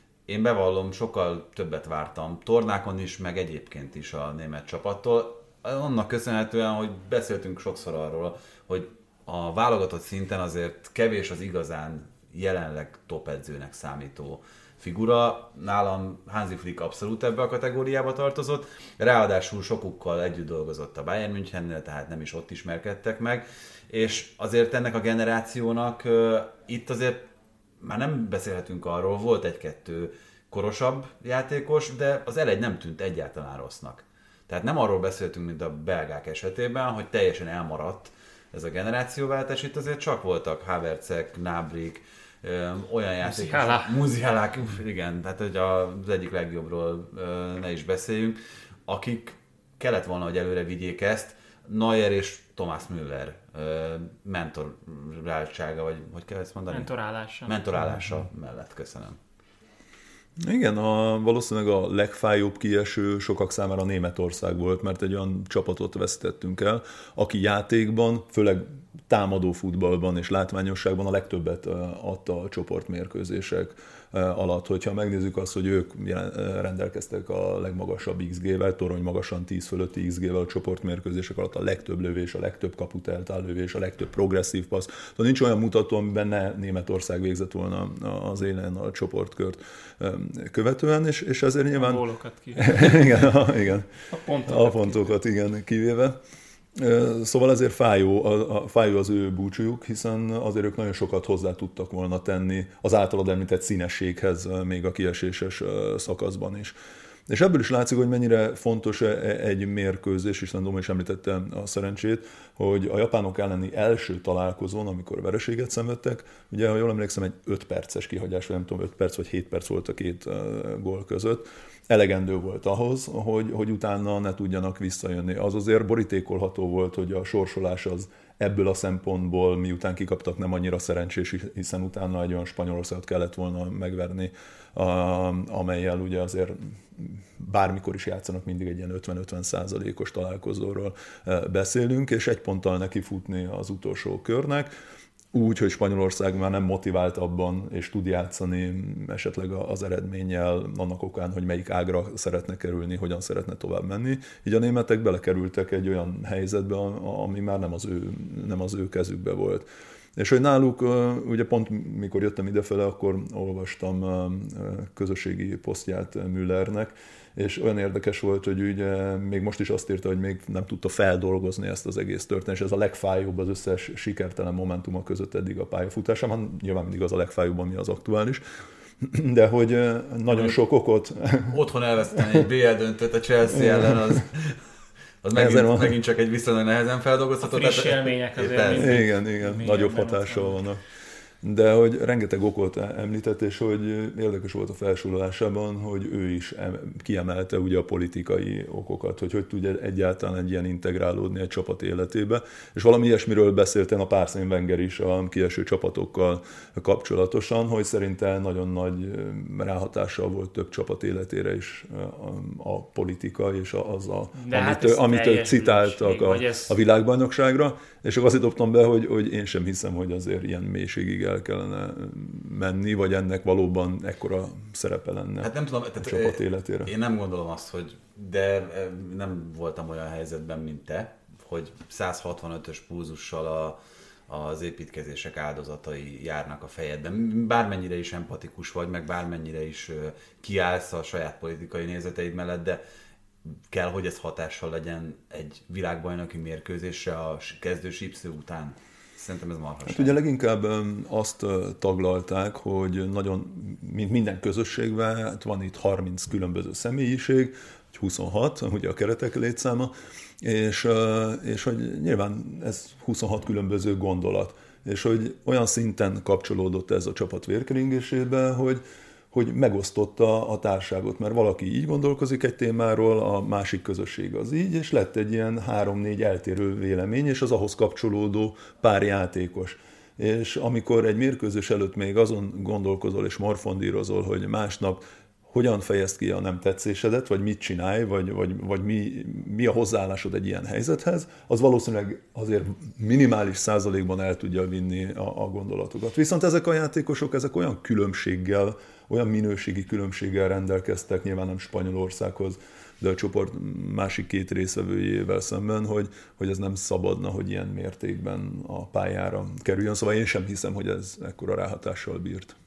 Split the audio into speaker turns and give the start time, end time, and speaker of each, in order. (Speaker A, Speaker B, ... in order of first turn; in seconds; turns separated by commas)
Speaker A: 0.3-27.3, Speaker A: 27.8-56.9, Speaker B: 43.2-43.9, Speaker B: 56.7-57.5, Speaker A: 57.5-59.2, Speaker C: 60.4-93.9, Speaker B: 91.8-93.1, Speaker B: 94.1-95.1, Speaker C: 94.5-96.2, Speaker C: 96.8-106.7, Speaker C: 107.3-144.7, Speaker C: 145.3-178.4, Speaker C: 179.0-181.6, Speaker A: 180.3-180.6, Speaker A: 181.5-184.6, Speaker C: 182.2-182.5, Speaker C: 183.5-184.2, Speaker A: 185.2-189.0, Speaker C: 185.3-186.0, Speaker B: 187.4-190.6, Speaker C: 188.7-190.8, Speaker C: 191.4-226.9, Speaker B: 214.3-216.7, Speaker A: 225.4-233.8, Speaker A: 234.3-242.8, Speaker A: 243.4-250.2, Speaker C: 249.8-312.5